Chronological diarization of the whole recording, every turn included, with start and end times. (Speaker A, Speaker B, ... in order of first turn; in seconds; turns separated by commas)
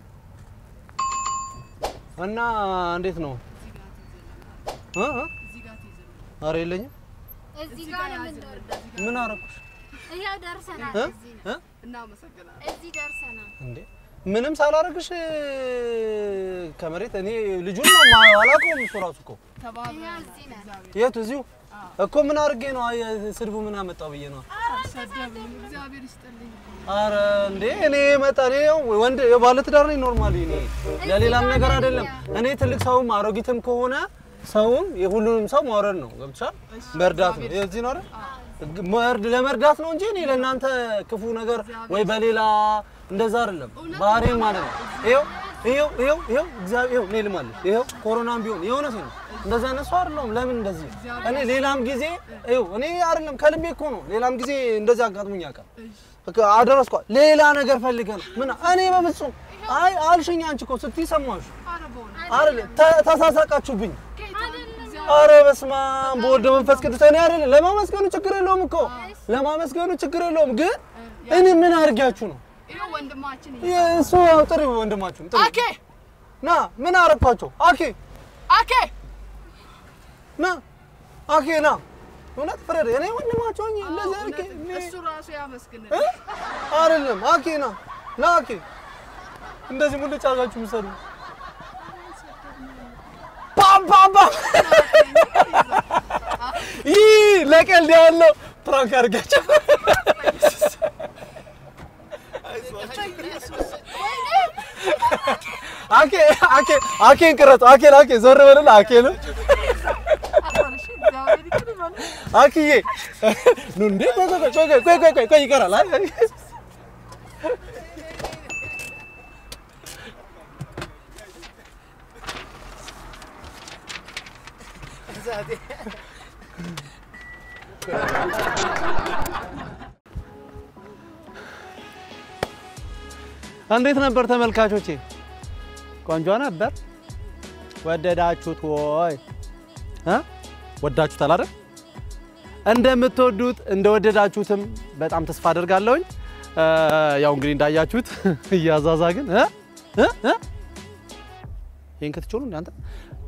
Speaker A: 2.1-3.4, Speaker B: 3.5-6.4, Speaker A: 4.9-5.3, Speaker A: 6.4-6.9, Speaker C: 7.5-8.7, Speaker B: 7.6-10.0, Speaker A: 8.9-9.4, Speaker C: 10.0-11.5, Speaker B: 10.7-12.8, Speaker A: 10.9-11.6, Speaker C: 12.6-13.5, Speaker A: 13.6-19.4, Speaker B: 19.6-21.1, Speaker C: 19.8-20.7, Speaker A: 20.9-24.5, Speaker B: 21.7-22.0, Speaker B: 24.5-27.0, Speaker C: 24.6-25.6, Speaker A: 26.9-38.1, Speaker C: 30.9-32.3, Speaker B: 36.7-38.4, Speaker C: 38.1-38.7, Speaker A: 38.6-55.6, Speaker B: 40.2-40.5, Speaker B: 41.5-42.3, Speaker B: 43.7-45.5, Speaker C: 45.2-45.9, Speaker B: 47.5-48.1, Speaker B: 49.2-49.7, Speaker B: 50.9-52.5, Speaker C: 51.2-51.5, Speaker B: 55.8-56.1, Speaker A: 56.2-61.5, Speaker B: 58.2-59.9, Speaker B: 61.6-62.4, Speaker C: 62.1-63.2, Speaker A: 62.3-64.0, Speaker B: 64.1-67.2, Speaker C: 64.3-65.4, Speaker A: 65.0-72.4, Speaker C: 68.8-69.3, Speaker B: 68.8-69.2, Speaker B: 70.9-74.3, Speaker C: 72.7-73.1, Speaker A: 73.6-75.6, Speaker B: 75.3-75.8, Speaker A: 76.4-78.0, Speaker B: 78.5-78.9, Speaker A: 80.4-80.6, Speaker A: 81.3-81.8, Speaker A: 82.3-85.0, Speaker B: 83.8-86.9, Speaker A: 85.9-86.2, Speaker A: 86.7-88.6, Speaker A: 89.7-91.0, Speaker B: 91.8-93.2, Speaker A: 93.5-100.8, Speaker B: 94.4-96.8, Speaker A: 102.4-103.4, Speaker B: 102.5-105.7, Speaker C: 102.6-104.3, Speaker A: 104.3-109.4, Speaker B: 109.3-112.3, Speaker A: 112.2-116.4, Speaker A: 117.4-117.8, Speaker C: 125.2-125.8, Speaker A: 133.7-135.0, Speaker A: 136.0-136.8, Speaker A: 137.8-139.2, Speaker A: 140.8-141.5, Speaker A: 142.6-150.4, Speaker A: 152.0-152.7